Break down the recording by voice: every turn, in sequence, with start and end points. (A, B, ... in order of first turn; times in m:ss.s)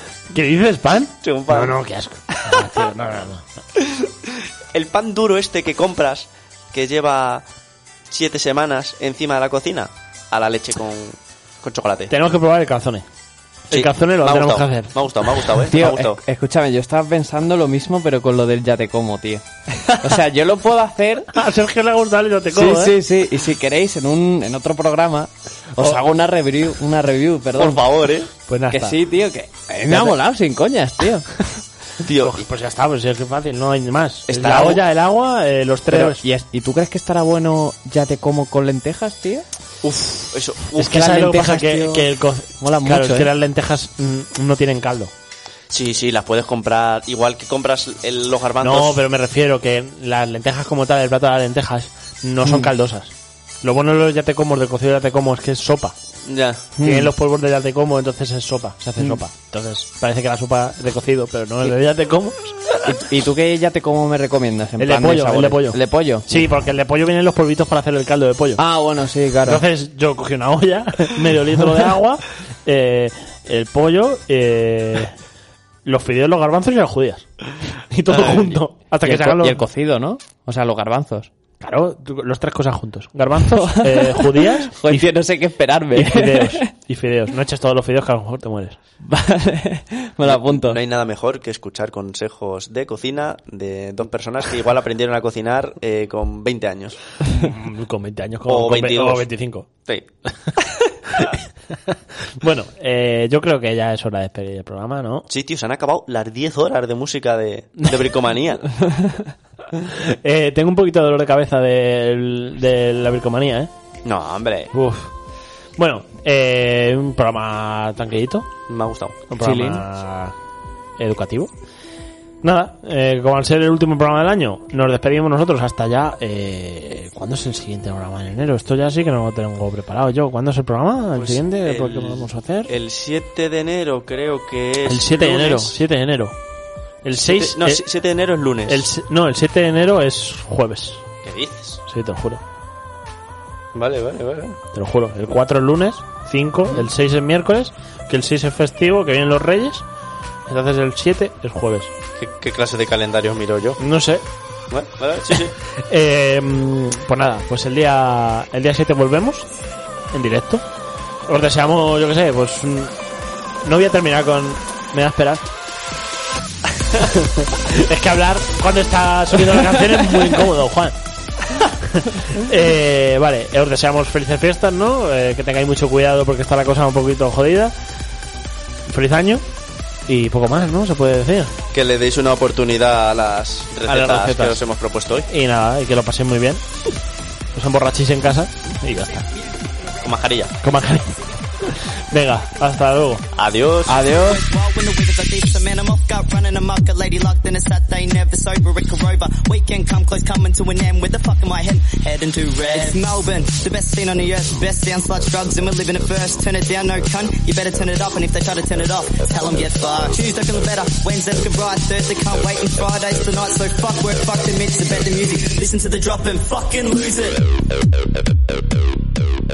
0:00.3-0:03.4 A
0:01.2-0:01.8 B
0:02.5-0:02.8 B
0:03.8-0:07.4 B
0:08.1-0:12.1 B
0:12.1-0:13.0 A
0:13.7-0:15.0 A
0:13.7-0:16.2 B
0:15.7-0:21.4 C
0:21.3-0:23.0 A
0:22.5-0:27.9 C
0:27.6-0:28.3 B
0:28.5-0:29.0 A
0:28.7-0:31.5 C
0:29.9-0:30.2 A
0:32.0-0:32.5 B
0:32.2-0:36.2 A
0:34.3-0:34.8 B
0:35.9-0:39.4 C
0:39.8-0:41.2 B
0:40.8-0:45.1 A
0:40.9-0:42.1 C
0:42.7-0:43.3 C
0:45.7-0:49.0 B
0:48.6-0:55.9 A
0:52.4-0:52.7 C
0:56.2-0:56.6 B
0:56.8-0:57.1 C
0:56.8-1:02.6 A
1:02.8-1:06.3 C
1:04.8-1:08.6 A
1:08.6-1:09.6 C
1:09.4-1:15.1 A
1:15.8-1:17.2 A
1:17.9-1:19.6 A
1:19.0-1:21.3 C
1:21.6-1:25.1 A
1:23.5-1:26.7 C
1:25.9-1:28.8 A
1:29.0-1:30.8 C
1:30.2-1:37.0 B
1:37.4-1:39.7 A
1:38.5-1:39.3 B
1:39.8-1:40.9 B
1:41.1-1:45.2 A
1:45.3-1:48.7 B
1:49.8-1:53.7 A
1:54.0-1:54.7 B
1:54.7-1:55.1 A
1:55.8-1:58.5 A
1:58.7-1:59.2 B
1:59.3-2:00.3 A
1:59.4-1:59.8 C
2:01.0-2:01.5 A
2:02.4-2:12.7 A
2:11.1-2:15.8 B
2:14.8-2:16.4 A
2:17.0-2:17.8 A
2:17.1-2:18.9 B
2:18.7-2:21.0 A
2:21.2-2:21.8 B
2:21.9-2:22.4 A
2:23.7-2:24.6 B
2:24.7-2:29.8 A
2:30.5-2:31.9 A
2:32.2-2:33.8 B
2:33.8-2:34.2 A
2:34.7-2:35.5 B
2:35.8-2:39.5 A
2:40.1-2:40.6 A
2:41.3-2:42.9 A
2:43.6-2:45.4 A
2:46.9-2:50.9 A
2:51.5-2:57.7 A
2:58.9-2:59.4 A
3:00.1-3:01.5 A
3:01.7-3:05.3 B
3:03.9-3:04.6 A
3:05.3-3:06.6 A
3:07.5-3:09.2 A
3:09.3-3:10.1 D
3:10.0-3:10.6 B
3:10.6-3:13.2 A
3:13.3-3:14.0 B
3:13.9-3:14.4 C
3:14.0-3:37.5 D